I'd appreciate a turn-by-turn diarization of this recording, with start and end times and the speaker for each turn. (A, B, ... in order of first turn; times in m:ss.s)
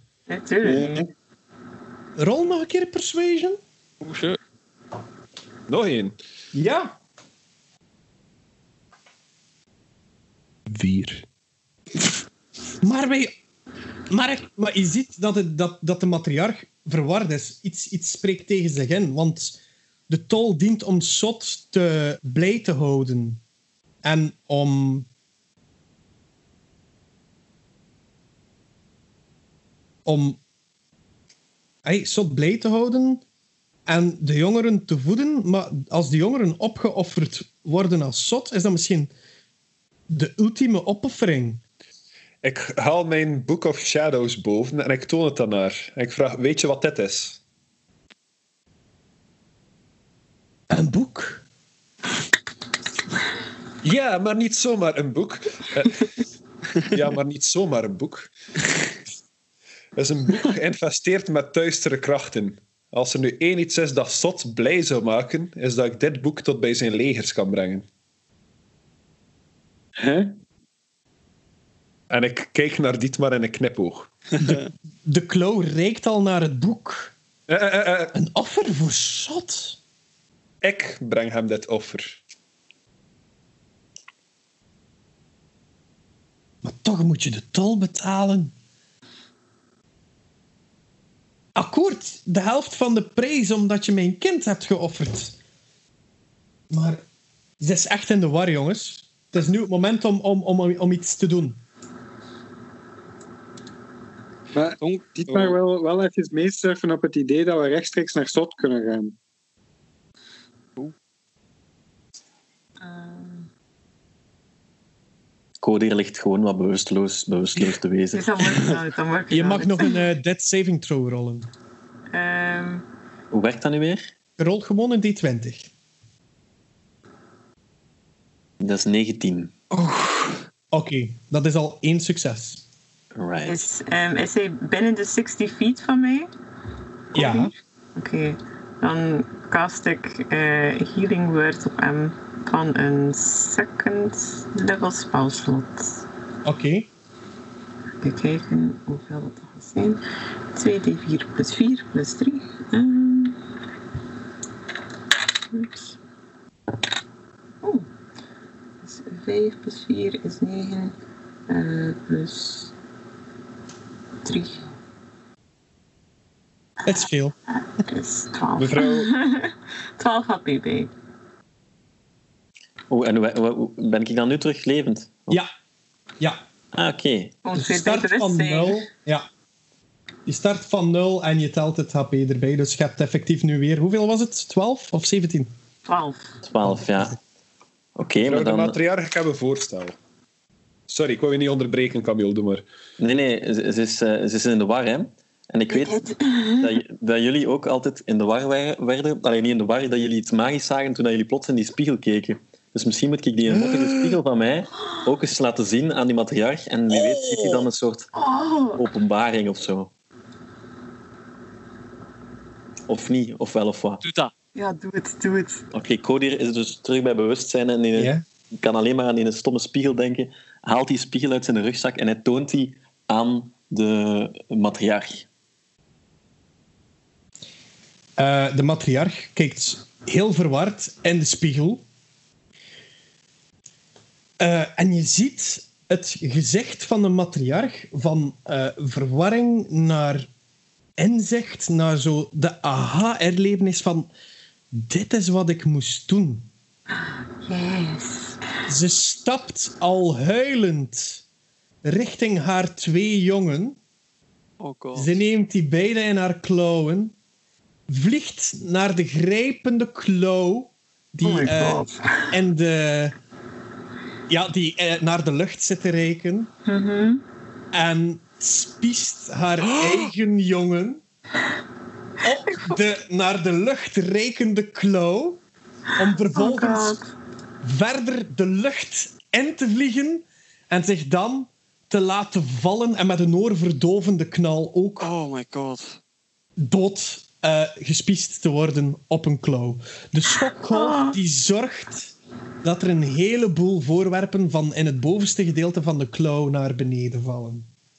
0:00.3-0:01.0 A
0:00.6-0:01.1 B
0:02.2-0:03.6 C
0:04.0-0:04.4 D
0:05.7-0:06.1 E
0:06.5-0:06.9 C
0:10.7-0:11.2 E
0:12.8-0:13.3 C
0:14.1-0:19.6 C
0:20.1-0:23.4 C
0:24.0-0:25.1 C
0:30.0-0:30.4 C
0:31.8-0:33.2 C
0:33.9-0:39.1 C
0:40.1-0:41.6 C
0:42.4-0:47.4 E
0:50.7-0:51.4 C
0:53.8-0:56.0 E
0:56.8-0:58.3 E
1:00.0-1:07.8 E
1:10.0-1:10.4 B
1:12.1-1:14.1 E
1:14.4-1:17.1 C
1:17.5-1:18.1 E
1:18.1-1:19.8 C
1:20.6-1:22.2 E
1:26.6-1:28.5 C
1:31.6-1:35.3 C
1:36.7-1:37.0 C
1:37.6-1:41.6 C
1:44.5-1:49.2 B
1:44.8-1:45.6 D
1:52.8-1:53.5 A
1:55.6-1:58.7 F
1:58.1-2:00.0 A
1:59.3-2:01.5 C
2:02.1-2:02.8 A
2:03.3-2:04.1 F
2:04.4-2:05.7 C
2:08.6-2:09.5 F
2:09.8-2:10.2 C
2:10.7-2:12.6 C
2:13.1-2:13.6 F
2:13.5-2:16.3 A
2:17.1-2:26.0 A
2:17.1-2:17.5 C
2:26.4-2:26.9 C
2:28.0-2:30.0 A
2:30.5-2:33.4 A
2:35.5-2:36.0 A
2:37.6-2:37.9 A
2:38.8-2:41.0 A
2:41.5-2:42.7 A
2:44.2-2:44.6 A
2:46.8-2:47.3 C
2:47.8-2:50.9 A
2:48.6-2:49.1 E
2:52.9-2:55.4 F
2:56.7-2:57.4 F
2:57.4-2:58.8 A
2:57.5-2:59.2 C
3:00.2-3:05.5 C
3:05.8-3:06.4 A
3:06.4-3:07.2 F
3:08.0-3:08.8 F
3:08.2-3:10.0 E
3:10.9-3:12.6 E
3:13.0-3:16.1 F
3:15.7-3:16.8 A
3:16.6-3:28.1 F
3:23.5-3:24.2 C
3:26.9-3:27.6 C
3:28.1-3:28.8 A
3:28.8-3:29.9 F
3:32.9-3:34.0 F
3:34.0-3:34.3 D
3:34.5-3:35.6 A
3:35.7-3:45.3 F
3:38.0-3:38.2 C
3:48.2-3:51.8 C
3:54.4-4:00.3 C
4:01.0-4:04.1 C
4:04.7-4:06.5 C
4:07.0-4:08.4 A
4:08.7-4:11.2 C
4:11.8-4:13.8 C
4:14.6-4:15.1 D
4:15.0-4:17.1 C
4:17.9-4:23.2 C
4:21.2-4:22.3 A
4:24.3-4:26.5 C
4:26.6-4:27.2 A
4:27.7-4:31.0 C
4:32.2-4:35.4 C
4:36.0-4:37.0 C
4:36.3-4:37.1 A
4:37.6-4:45.1 C
4:45.0-4:46.0 D
4:46.6-4:57.7 C
4:50.7-4:51.2 A